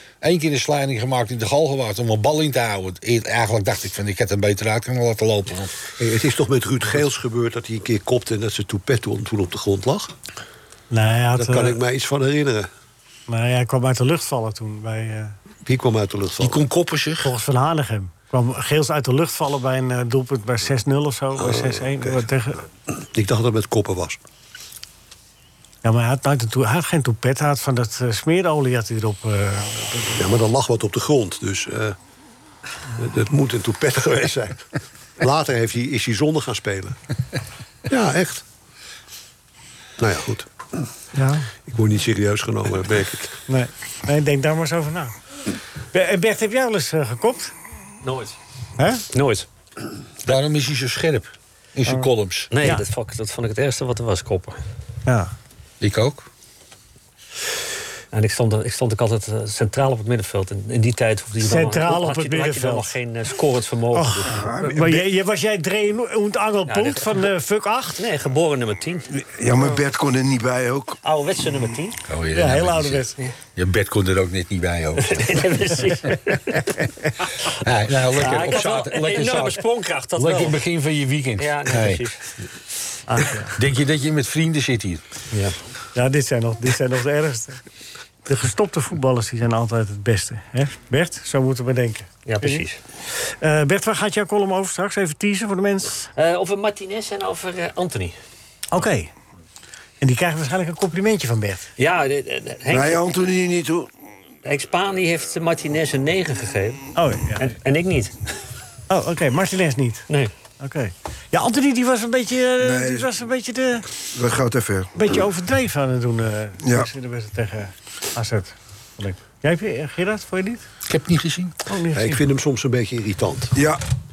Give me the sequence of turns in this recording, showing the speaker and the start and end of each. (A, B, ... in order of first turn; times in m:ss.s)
0:00.2-0:05.7 A
0:06.0-0:10.1 B
0:10.9-0:11.8 C
0:11.4-0:12.7 B
0:13.3-0:15.3 C
0:15.7-0:16.6 B
0:16.4-0:17.3 A
0:17.2-0:22.6 C
0:21.4-0:22.2 B
0:22.9-0:24.2 B
0:25.8-0:30.2 C
0:30.2-0:32.0 B
0:33.0-0:37.0 B
0:37.9-0:38.4 B
0:40.0-0:40.8 B
0:41.2-0:41.5 C
0:41.7-0:43.4 B
0:43.5-0:45.2 C
0:45.9-0:47.5 C
0:48.0-0:48.4 D
0:48.8-0:49.0 C
0:49.1-0:49.5 D
0:50.2-0:52.5 A
0:52.5-0:54.6 D
0:55.1-0:55.3 C
0:55.8-0:56.3 A
0:58.1-1:04.9 D
1:01.4-1:02.9 C
1:03.9-1:08.0 C
1:04.3-1:05.0 E
1:06.7-1:07.3 D
1:08.0-1:09.1 D
1:09.1-1:11.0 E
1:11.0-1:12.0 D
1:12.1-1:15.6 A
1:12.3-1:13.2 C
1:15.0-1:16.7 D
1:17.4-1:22.1 A
1:17.9-1:20.6 D
1:21.4-1:22.2 D
1:23.1-1:23.5 D
1:23.4-1:25.0 A
1:25.3-1:25.6 D
1:26.0-1:27.6 C
1:28.3-1:36.1 C
1:32.2-1:32.8 D
1:36.2-1:38.2 D
1:38.7-1:39.1 C
1:40.0-1:41.7 C
1:41.8-1:43.0 D
1:42.7-1:43.9 E
1:44.4-1:48.2 D
1:47.0-1:47.4 C
1:48.9-1:50.1 C
1:50.6-1:53.9 C
1:52.6-1:53.1 E
1:54.1-1:54.9 E
1:55.0-2:00.6 C
1:56.6-1:56.9 E
2:00.9-2:01.6 A
2:01.7-2:02.2 C
2:01.9-2:03.6 B
2:03.6-2:03.8 E